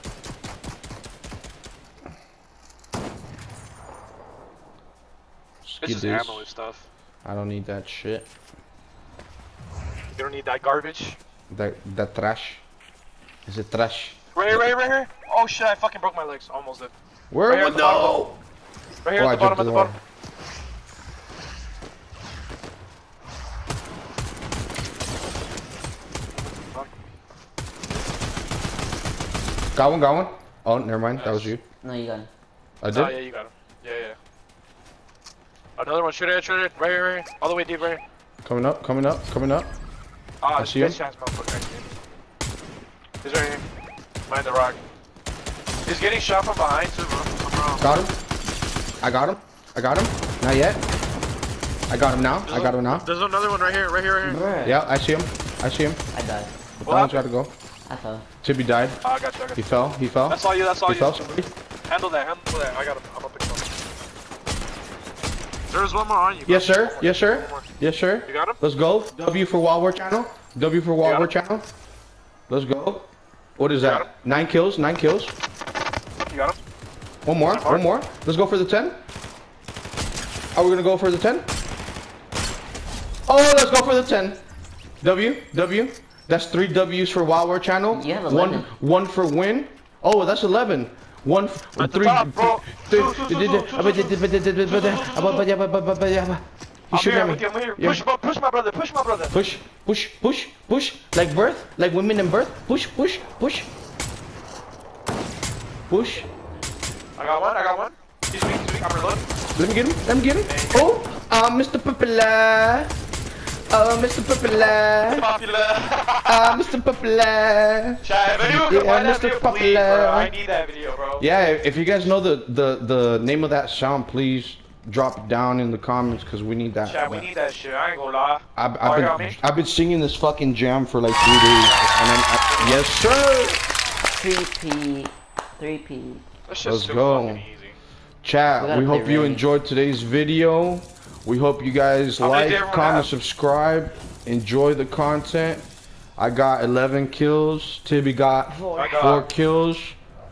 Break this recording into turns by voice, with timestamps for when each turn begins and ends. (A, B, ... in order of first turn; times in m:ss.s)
0:05.6-0:06.5 A
0:05.8-0:06.9 B
0:07.2-0:08.3 A
0:10.2-0:11.2 B
0:11.5-0:12.6 A
0:13.5-0:14.6 A
0:14.3-0:16.9 B
0:17.3-0:18.4 A
0:17.5-0:18.3 B
0:19.0-0:20.0 B
0:19.1-0:20.0 A
0:26.5-0:26.9 B
0:29.8-0:31.6 A
0:31.1-0:31.5 B
0:31.8-0:32.3 C
0:32.8-0:33.2 A
0:32.9-0:34.2 B
0:35.8-0:38.0 B
0:38.4-0:39.7 A
0:40.4-0:41.9 B
0:40.6-0:41.0 A
0:43.2-0:43.6 B
0:44.3-0:44.8 B
0:45.9-0:47.9 B
0:47.8-0:48.2 A
0:49.0-0:50.8 A
0:51.9-0:53.1 A
0:52.5-0:54.4 B
0:54.2-0:54.8 C
0:54.6-0:56.0 A
0:56.1-0:56.5 C
0:56.8-0:57.5 A
0:56.8-0:57.2 B
0:57.9-0:58.3 C
0:58.4-0:59.0 A
0:59.0-1:01.4 B
0:59.6-1:01.5 A
1:01.9-1:03.7 B
1:05.7-1:07.7 B
1:06.5-1:11.6 A
1:08.2-1:08.6 B
1:11.0-1:11.3 B
1:12.5-1:15.3 A
1:13.8-1:14.1 B
1:16.3-1:16.6 B
1:17.2-1:19.0 A
1:17.4-1:17.9 B
1:20.5-1:21.5 A
1:23.2-1:24.4 A
1:25.0-1:38.0 A
1:27.9-1:28.7 C
1:31.8-1:35.5 B
1:36.9-1:39.4 B
1:39.3-1:43.7 A
1:45.9-1:46.3 A
1:47.2-1:49.3 B
1:49.6-1:53.0 A
1:50.4-1:50.9 B
1:53.7-1:55.3 A
1:55.1-1:56.6 B
1:56.2-2:00.3 A
1:58.0-2:01.2 B
2:01.2-2:07.3 A
2:06.8-2:09.4 B
2:08.6-2:13.6 A
2:11.6-2:12.9 B
2:14.1-2:16.2 C
2:16.5-2:17.8 B
2:16.6-2:17.5 A
2:18.2-2:25.6 A
2:18.6-2:19.5 C
2:22.2-2:23.1 B
2:26.2-2:30.0 A
2:28.5-2:29.0 C
2:28.7-2:29.3 B